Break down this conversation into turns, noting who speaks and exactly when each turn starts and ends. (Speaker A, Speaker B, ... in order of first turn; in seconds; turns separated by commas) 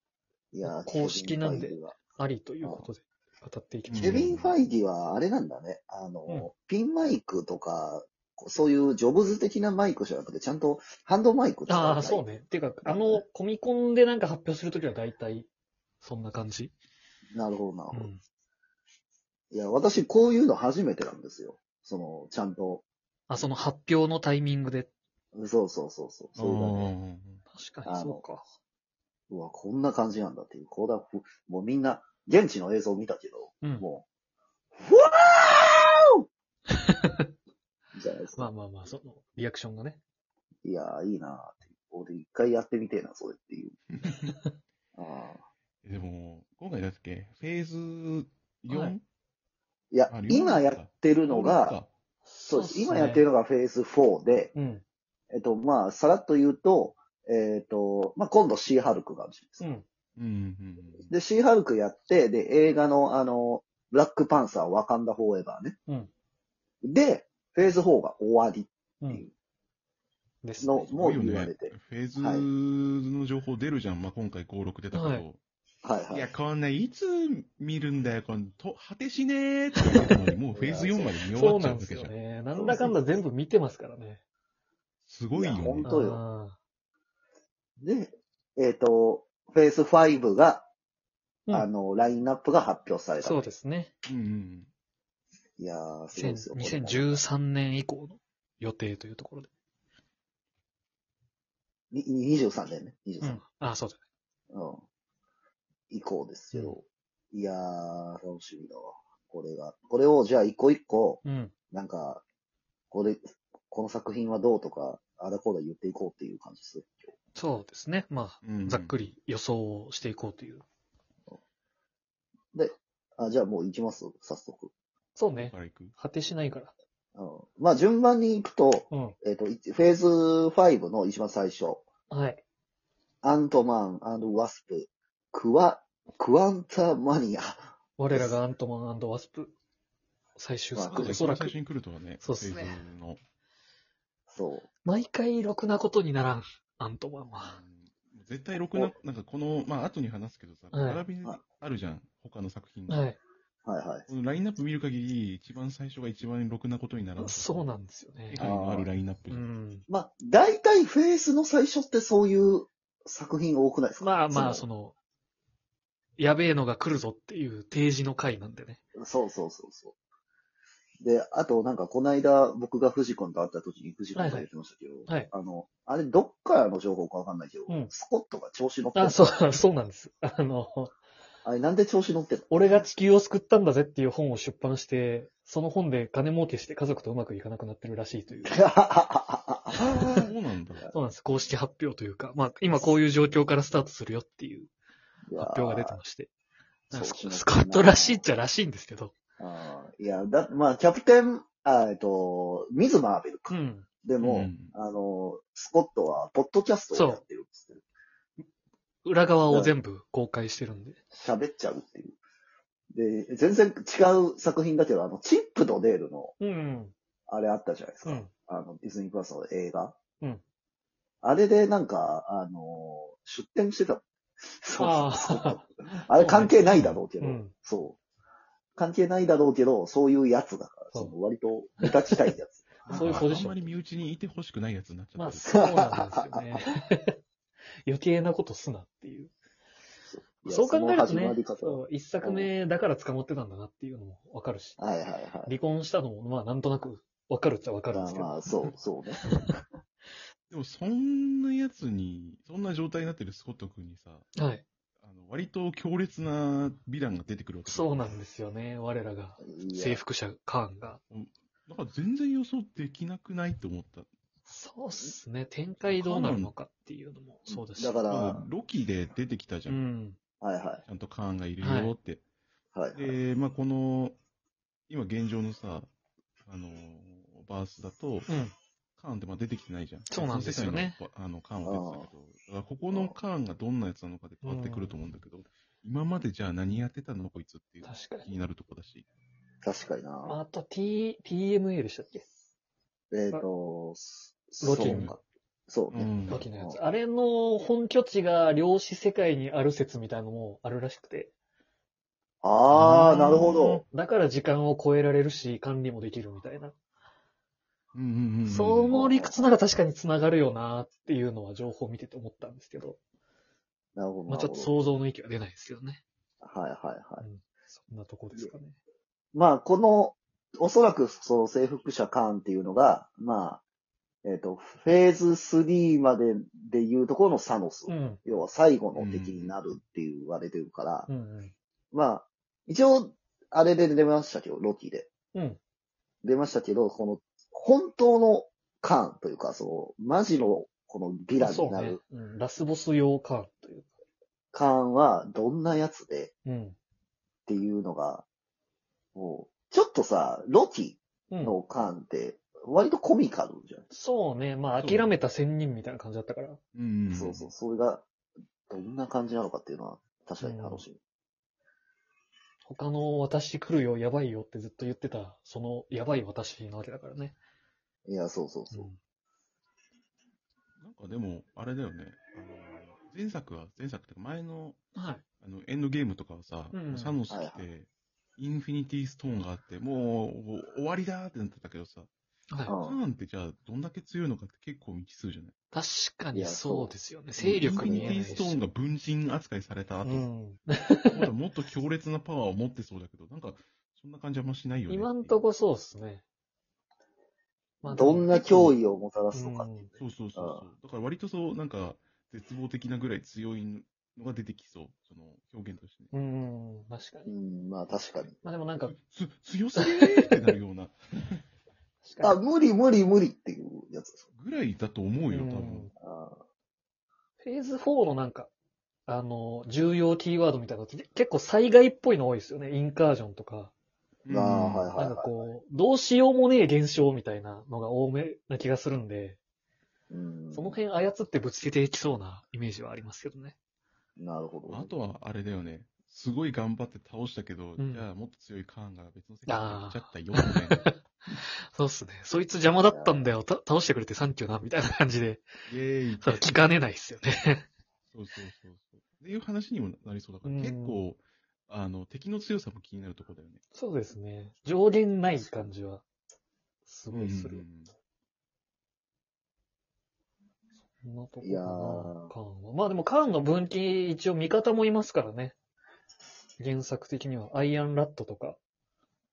Speaker A: 0.5-2.0, Speaker B: 0.6-4.2, Speaker A: 2.6-2.9, Speaker C: 3.9-4.6, Speaker A: 4.0-12.2, Speaker B: 11.7-15.5, Speaker A: 12.8-13.2, Speaker B: 16.0-16.7, Speaker A: 17.3-18.1, Speaker B: 17.9-18.2, Speaker A: 19.5-22.8, Speaker B: 23.3-24.9, Speaker A: 25.3-26.9, Speaker C: 26.4-27.4, Speaker B: 27.5-28.4, Speaker A: 27.9-28.2, Speaker A: 29.3-34.0, Speaker A: 34.8-36.1, Speaker B: 36.7-37.2, Speaker A: 37.9-38.5, Speaker B: 38.4-40.0, Speaker A: 40.6-43.8, Speaker C: 43.9-44.3, Speaker A: 45.0-45.4, Speaker C: 45.8-49.0, Speaker B: 48.7-48.9, Speaker A: 49.9-51.8, Speaker C: 50.1-51.9, Speaker B: 52.2-53.2, Speaker A: 52.4-54.5, Speaker B: 54.5-54.8, Speaker A: 55.3-59.6, Speaker B: 59.6-59.8, Speaker C: 60.1-61.1, Speaker A: 61.1-65.8, Speaker A: 66.8-69.3, Speaker B: 70.4-70.9, Speaker A: 70.6-72.5, Speaker C: 70.8-75.4, Speaker B: 74.9-75.2, Speaker A: 75.8-76.3, Speaker C: 76.1-82.1, Speaker B: 79.8-80.2, Speaker A: 80.5-81.2, Speaker B: 81.3-84.2, Speaker A: 82.5-82.9, Speaker C: 85.0-85.9, Speaker A: 85.3-86.2, Speaker B: 85.8-86.6, Speaker A: 87.8-90.7, Speaker A: 91.5-93.5, Speaker B: 93.2-93.9, Speaker C: 94.0-94.7, Speaker A: 95.6-97.2, Speaker B: 96.1-99.5, Speaker A: 101.9-103.4, Speaker B: 103.2-104.0, Speaker A: 104.5-104.8, Speaker A: 105.9-112.2, Speaker B: 106.5-106.8, Speaker B: 111.2-111.5, Speaker A: 112.9-117.1, Speaker B: 117.3-120.6, Speaker C: 118.4-119.0, Speaker A: 122.5-124.7, Speaker B: 125.1-126.7, Speaker C: 125.3-125.9, Speaker A: 127.1-131.8, Speaker B: 128.9-129.1, Speaker B: 132.1-132.4, Speaker A: 133.2-138.4, Speaker B: 138.0-139.5, Speaker B: 140.3-141.6, Speaker A: 140.7-141.2, Speaker C: 140.9-143.2, Speaker B: 142.2-142.8, Speaker A: 144.3-144.7, Speaker B: 144.8-147.6, Speaker C: 147.4-153.0, Speaker B: 150.7-151.0, Speaker B: 152.9-153.2, Speaker A: 153.6-154.1, Speaker C: 154.1-157.7, Speaker B: 157.2-158.5, Speaker C: 158.3-159.4, Speaker A: 158.4-158.9, Speaker B: 159.3-159.8, Speaker A: 159.9-164.6, Speaker B: 164.0-164.9, Speaker B: 166.2-168.8, Speaker A: 169.0-169.9, Speaker A: 171.0-179.4, Speaker B: 174.1-174.5, Speaker B: 178.9-180.9, Speaker A: 181.4-182.8, Speaker B: 182.5-188.6, Speaker A: 188.4-190.2, Speaker C: 189.8-190.8, Speaker B: 190.9-194.7, Speaker A: 195.3-196.0, Speaker B: 195.4-196.3, Speaker B: 196.9-199.1, Speaker A: 196.9-198.2, Speaker A: 199.4-207.8, Speaker B: 203.5-203.8, Speaker C: 204.2-204.7, Speaker B: 206.9-207.2, Speaker B: 209.0-211.0, Speaker A: 211.1-212.1, Speaker A: 212.9-216.3, Speaker B: 216.4-216.9, Speaker A: 217.3-220.0, Speaker A: 221.2-228.0, Speaker B: 224.8-227.5, Speaker C: 226.4-227.0, Speaker A: 228.8-233.3, Speaker B: 231.8-232.2, Speaker B: 232.9-233.7, Speaker C: 232.9-235.4, Speaker B: 235.2-237.1, Speaker A: 235.4-236.6, Speaker B: 237.8-239.3, Speaker A: 240.1-242.5, Speaker B: 240.4-244.8, Speaker A: 244.8-245.5, Speaker B: 245.4-248.5, Speaker A: 247.9-249.3, Speaker B: 249.2-249.5, Speaker C: 250.5-254.3, Speaker B: 254.3-254.6, Speaker C: 255.0-258.0, Speaker B: 257.6-261.0, Speaker A: 259.4-260.0, Speaker C: 261.1-264.1, Speaker B: 264.4-268.0, Speaker C: 265.8-266.5, Speaker A: 267.5-268.4, Speaker C: 268.1-269.8, Speaker B: 269.7-270.2, Speaker A: 270.4-270.8, Speaker C: 270.9-272.2, Speaker B: 271.6-271.9, Speaker A: 272.7-273.2, Speaker C: 272.9-274.2, Speaker C: 274.9-275.9, Speaker C: 276.4-278.3, Speaker B: 278.3-278.5, Speaker C: 279.0-289.0, Speaker B: 280.1-281.0, Speaker A: 281.6-282.1, Speaker B: 284.4-284.9, Speaker B: 287.8-288.3, Speaker A: 289.6-290.4, Speaker B: 290.2-292.2, Speaker A: 293.1-296.8, Speaker B: 294.6-295.1, Speaker C: 294.7-295.1, Speaker C: 295.9-296.4, Speaker B: 296.3-301.3, Speaker A: 302.4-303.8, Speaker C: 302.7-303.6, Speaker B: 302.8-306.7, Speaker C: 307.9-308.9, Speaker B: 308.5-313.0, Speaker A: 308.9-309.5, Speaker A: 313.9-314.7, Speaker B: 314.3-316.0, Speaker A: 316.4-317.2, Speaker B: 317.2-318.8, Speaker A: 319.3-323.6, Speaker A: 324.2-331.1, Speaker B: 327.9-328.2, Speaker C: 328.9-329.6, Speaker B: 331.1-331.5, Speaker A: 331.9-335.1, Speaker B: 335.3-335.6, Speaker A: 336.2-342.0, Speaker B: 341.4-343.9, Speaker A: 344.5-346.3, Speaker B: 346.4-346.8, Speaker A: 347.5-348.2, Speaker A: 349.1-353.9, Speaker B: 351.3-351.6, Speaker B: 353.9-356.6, Speaker C: 354.8-355.2, Speaker C: 356.7-357.5, Speaker A: 357.1-358.1, Speaker A: 358.7-361.0, Speaker B: 360.4-360.9, Speaker B: 362.6-367.4, Speaker A: 368.1-368.9, Speaker B: 368.7-369.0, Speaker C: 370.8-374.8, Speaker B: 374.9-375.2, Speaker C: 375.4-382.1, Speaker B: 376.7-377.2, Speaker A: 377.3-377.6, Speaker A: 382.7-383.0, Speaker C: 382.7-385.5, Speaker B: 385.7-388.6, Speaker A: 386.3-386.9, Speaker C: 387.4-390.3, Speaker A: 387.6-388.2, Speaker B: 390.0-391.3, Speaker C: 391.1-395.4, Speaker B: 394.9-396.2, Speaker B: 397.8-398.8, Speaker A: 397.8-400.6, Speaker B: 399.3-399.9, Speaker C: 400.0-406.1, Speaker B: 406.1-407.3, Speaker A: 407.3-408.4, Speaker B: 408.4-408.9, Speaker C: 408.8-411.4, Speaker B: 409.8-410.5, Speaker B: 412.0-412.4, Speaker A: 412.2-414.2, Speaker C: 414.3-415.9, Speaker B: 415.3-415.9, Speaker A: 416.0-416.4, Speaker B: 417.4-418.5, Speaker B: 419.1-423.7, Speaker C: 424.2-424.9, Speaker A: 424.3-425.5, Speaker B: 424.9-429.4, Speaker A: 430.1-430.8, Speaker B: 430.5-433.5, Speaker A: 434.2-434.9, Speaker C: 434.7-440.9, Speaker B: 437.8-438.1, Speaker B: 439.5-440.9, Speaker B: 441.7-445.4, Speaker A: 442.8-443.3, Speaker C: 445.7-446.6, Speaker B: 446.2-447.6, Speaker C: 448.1-453.6, Speaker B: 450.4-451.0, Speaker B: 453.7-456.0, Speaker A: 455.3-455.7, Speaker B: 456.9-457.6, Speaker C: 457.1-457.9, Speaker B: 461.0-465.6, Speaker A: 461.4-462.3, Speaker B: 466.6-468.6